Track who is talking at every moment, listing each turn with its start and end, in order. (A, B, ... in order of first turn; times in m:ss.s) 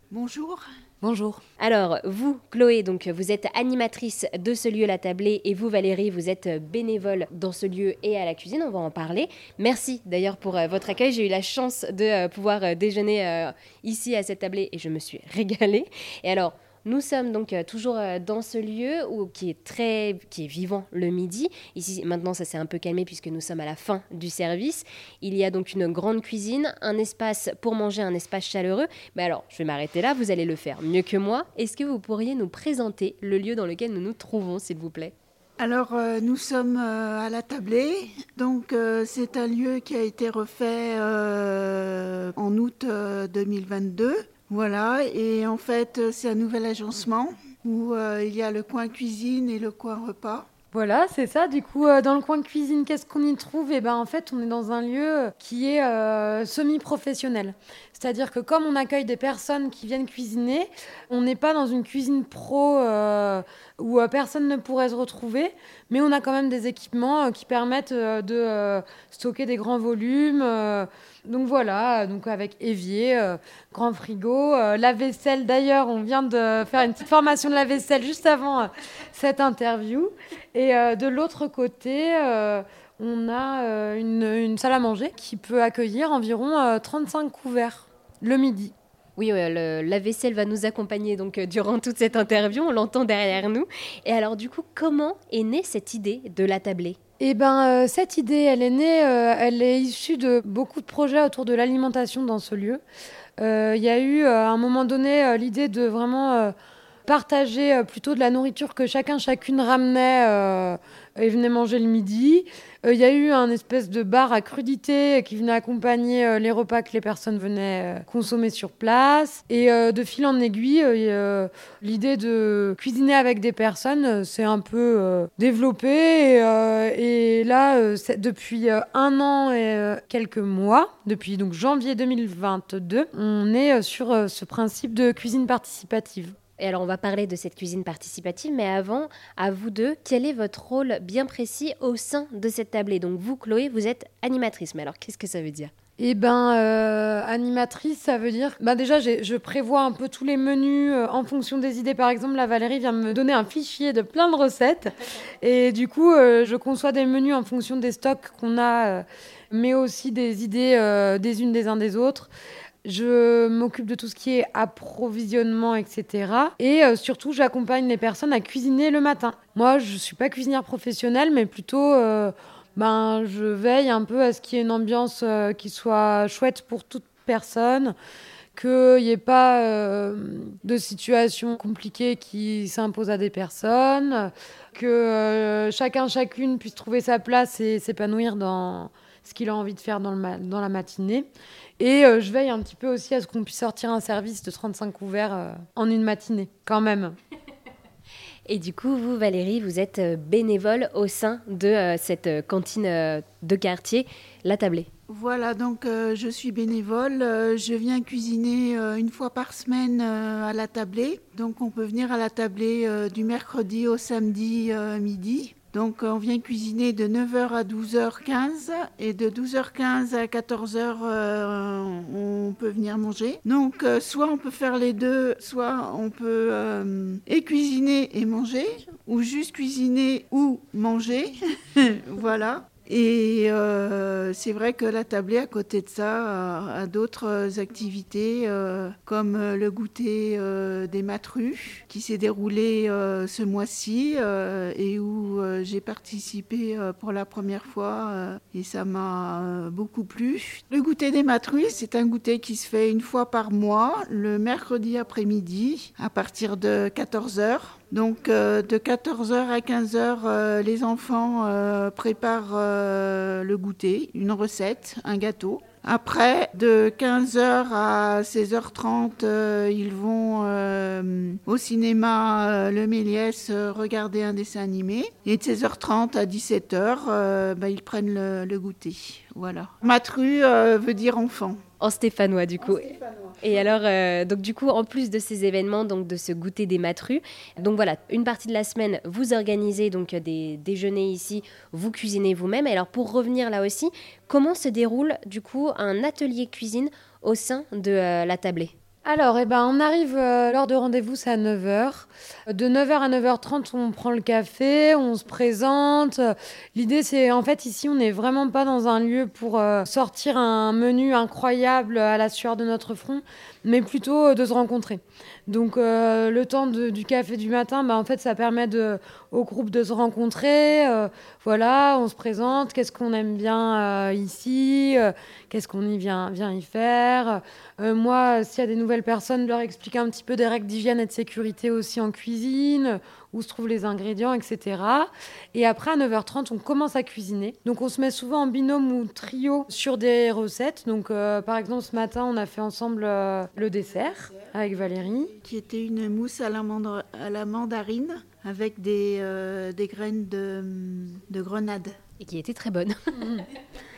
0:00.1-0:00.6 A
0:01.0-0:01.4 B
0:01.6-0:35.1 C
0:35.6-0:50.5 A
0:50.7-1:28.7 B
1:29.2-1:37.0 C
1:37.2-1:42.8 B
1:43.4-1:46.5 B
1:47.1-2:16.3 B
2:16.6-2:25.7 C
2:26.0-2:42.3 B
2:42.8-2:57.9 B
2:58.5-3:11.3 B
3:11.8-3:17.1 B
3:18.5-3:24.9 C
3:25.1-4:41.6 A
4:41.8-4:58.7 C
4:59.0-5:45.3 B
5:45.4-5:51.9 A
5:52.2-5:53.3 C